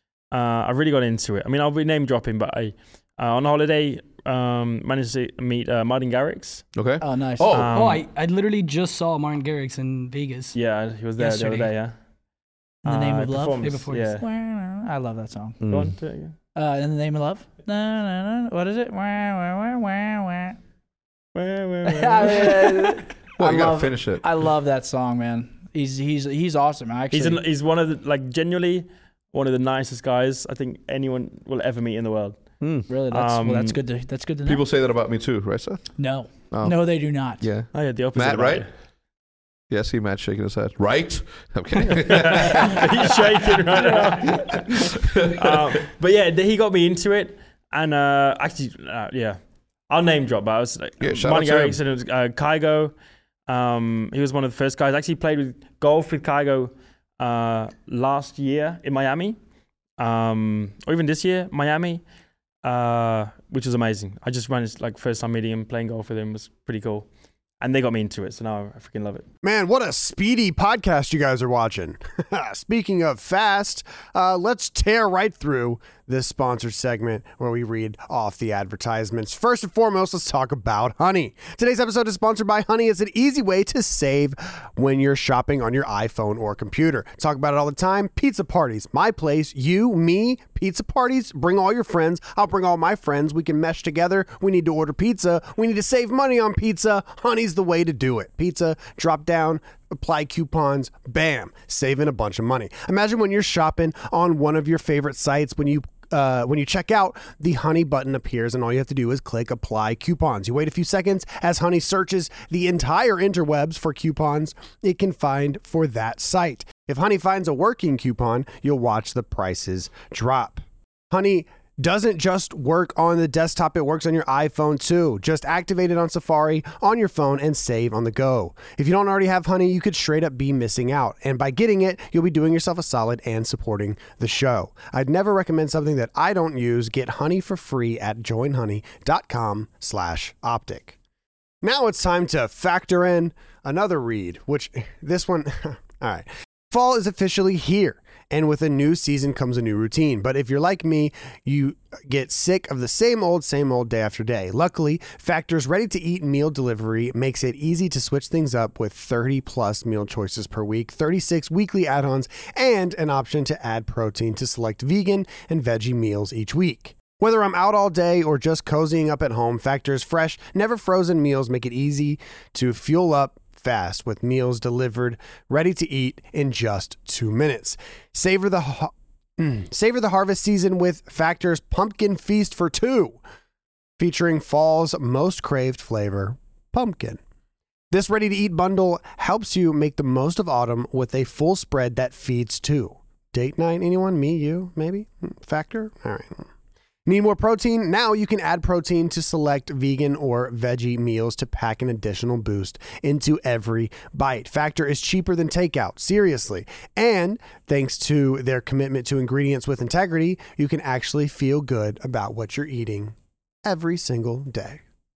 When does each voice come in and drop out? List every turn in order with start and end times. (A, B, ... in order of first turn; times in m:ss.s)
0:00.3-0:06.6 A
0:06.8-0:07.8 B
0:07.0-0:07.5 C
0:07.5-0:08.0 A
0:07.7-0:10.6 D
0:10.5-0:12.0 A
0:11.2-0:11.6 D
0:12.8-0:14.2 A
0:12.8-0:15.6 C
0:13.6-0:14.1 D
0:15.6-0:15.9 B
0:15.7-0:16.4 A
0:16.6-0:20.6 C
0:21.4-0:23.0 A
0:21.9-0:27.4 C
0:23.4-0:24.2 B
0:27.1-0:32.4 A
0:32.6-0:32.9 B
0:32.9-0:34.6 C
0:33.1-0:33.8 A
0:34.4-0:35.9 B
0:36.0-0:37.4 C
0:36.5-0:36.8 B
0:37.4-0:38.6 B
0:37.7-0:38.7 A
0:39.7-0:45.7 B
0:42.0-0:49.4 A
0:49.9-0:52.9 A
0:51.0-0:51.8 B
0:53.5-0:59.4 A
1:00.0-1:02.0 A
1:02.6-1:07.1 A
1:07.6-1:09.2 A
1:09.4-2:21.0 E
2:21.6-3:03.2 E
3:04.0-3:07.2 E
3:07.9-3:16.5 E
3:17.1-3:34.8 E